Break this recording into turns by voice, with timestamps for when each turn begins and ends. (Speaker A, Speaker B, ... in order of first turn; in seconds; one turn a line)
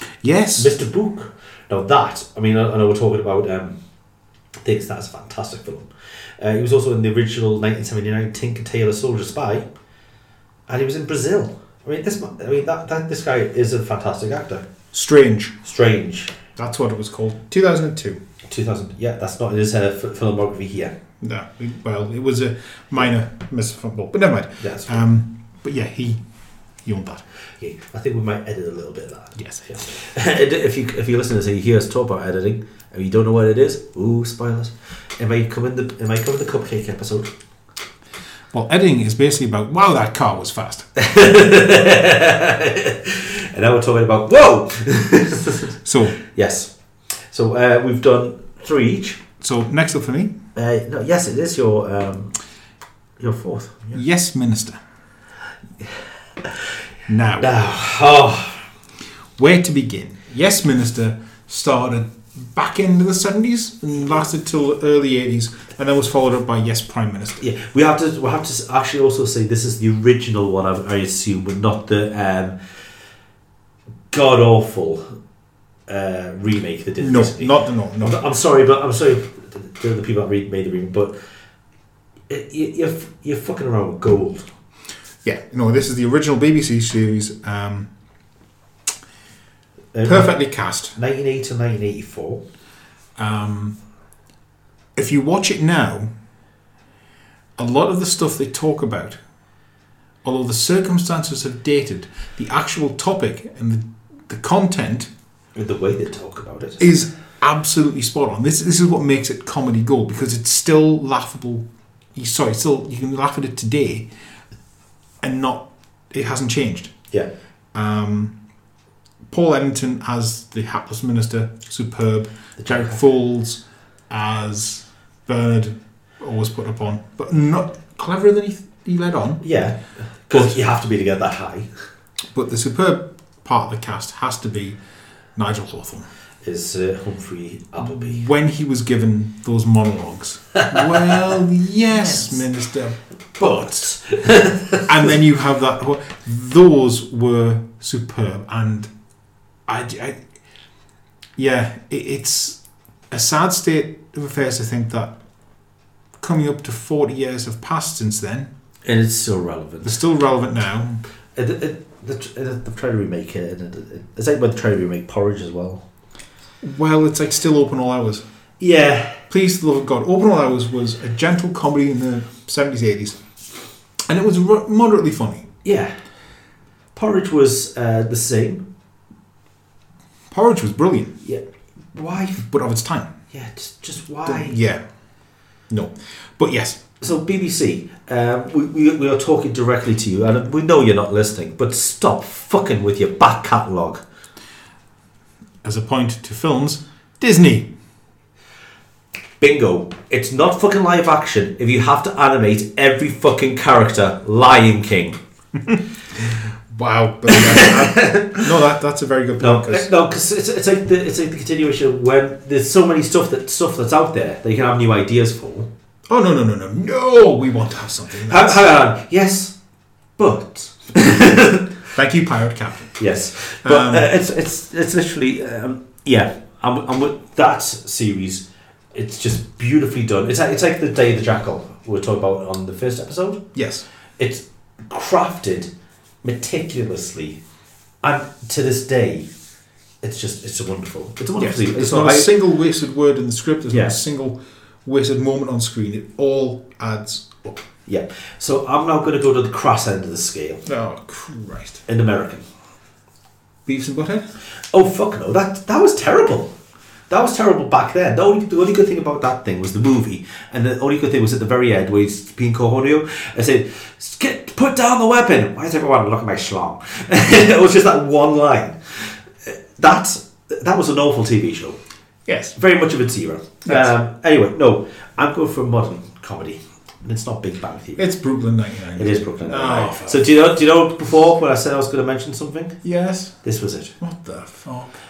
Speaker A: 0.2-0.7
Speaker B: 0.6-3.8
Speaker B: 4.6-9.7
Speaker B: 10.7-14.6
Speaker A: 14.9-15.6
Speaker B: 15.6-16.3
Speaker A: 16.6-18.2
Speaker B: 18.5-21.0
Speaker A: 21.2-26.2
Speaker B: 24.6-25.0
Speaker A: 26.8-27.2
Speaker B: 27.6-37.3
Speaker A: 29.4-29.6
Speaker A: 38.5-40.9
Speaker B: 41.0-49.2
Speaker A: 45.8-46.2
Speaker A: 49.4-50.4
Speaker B: 50.5-52.3
Speaker B: 53.2-54.0
Speaker A: 53.9-54.8
Speaker A: 57.1-57.5
Speaker B: 57.4-58.6
Speaker A: 59.4-67.4
Speaker B: 67.4-72.6
Speaker B: 74.1-75.1
Speaker B: 75.9-81.2
Speaker A: 77.0-78.2
Speaker B: 82.3-84.5
Speaker A: 85.2-87.9
Speaker B: 89.9-90.4
Speaker A: 90.0-90.9
Speaker B: 90.9-92.4
Speaker A: 93.2-93.8
Speaker A: 95.0-96.1
Speaker A: 97.6-99.2
Speaker A: 100.2-105.1
Speaker B: 105.5-106.8
Speaker A: 106.8-114.1
Speaker A: 115.2-116.9
Speaker A: 117.7-118.3
Speaker A: 119.3-129.4
Speaker B: 122.6-123.0
Speaker B: 129.4-131.7
Speaker A: 130.3-130.6
Speaker A: 132.3-134.8
Speaker A: 135.3-136.1
Speaker B: 136.4-138.2
Speaker A: 137.8-143.9
Speaker B: 143.4-144.9
Speaker A: 144.8-148.9
Speaker A: 149.7-150.2
Speaker A: 151.3-152.6
Speaker A: 153.1-155.2
Speaker A: 156.2-158.5
Speaker B: 158.8-159.9
Speaker A: 159.8-161.0
Speaker B: 161.3-165.8
Speaker A: 166.6-168.2
Speaker B: 168.6-169.3
Speaker A: 169.3-173.2
Speaker A: 174.1-175.5
Speaker B: 175.6-175.9
Speaker B: 176.9-178.7
Speaker A: 180.3-181.2
Speaker B: 181.2-182.4
Speaker A: 182.4-183.1
Speaker B: 183.3-184.6
Speaker A: 184.2-184.8
Speaker A: 185.7-186.8
Speaker B: 187.0-194.0
Speaker A: 195.6-197.7
Speaker B: 199.4-205.2
Speaker A: 206.7-209.9
Speaker B: 207.3-208.4
Speaker B: 209.4-215.7
Speaker A: 216.1-218.6
Speaker B: 218.2-219.6
Speaker B: 220.2-221.8
Speaker A: 221.9-223.0
Speaker B: 223.0-233.4
Speaker A: 223.6-224.1
Speaker A: 233.5-233.8
Speaker B: 234.2-235.7
Speaker B: 236.2-237.4
Speaker B: 238.0-239.3
Speaker B: 240.0-242.3
Speaker A: 241.4-247.6
Speaker B: 243.7-244.0
Speaker B: 247.8-250.6
Speaker A: 250.7-251.8
Speaker B: 251.9-252.4
Speaker A: 253.7-254.3
Speaker B: 254.7-256.5
Speaker B: 257.1-271.8
Speaker A: 272.2-272.6
Speaker B: 272.6-278.1
Speaker A: 278.0-280.3
Speaker B: 279.0-282.8
Speaker A: 282.8-283.4
Speaker B: 283.4-283.9
Speaker A: 284.0-284.9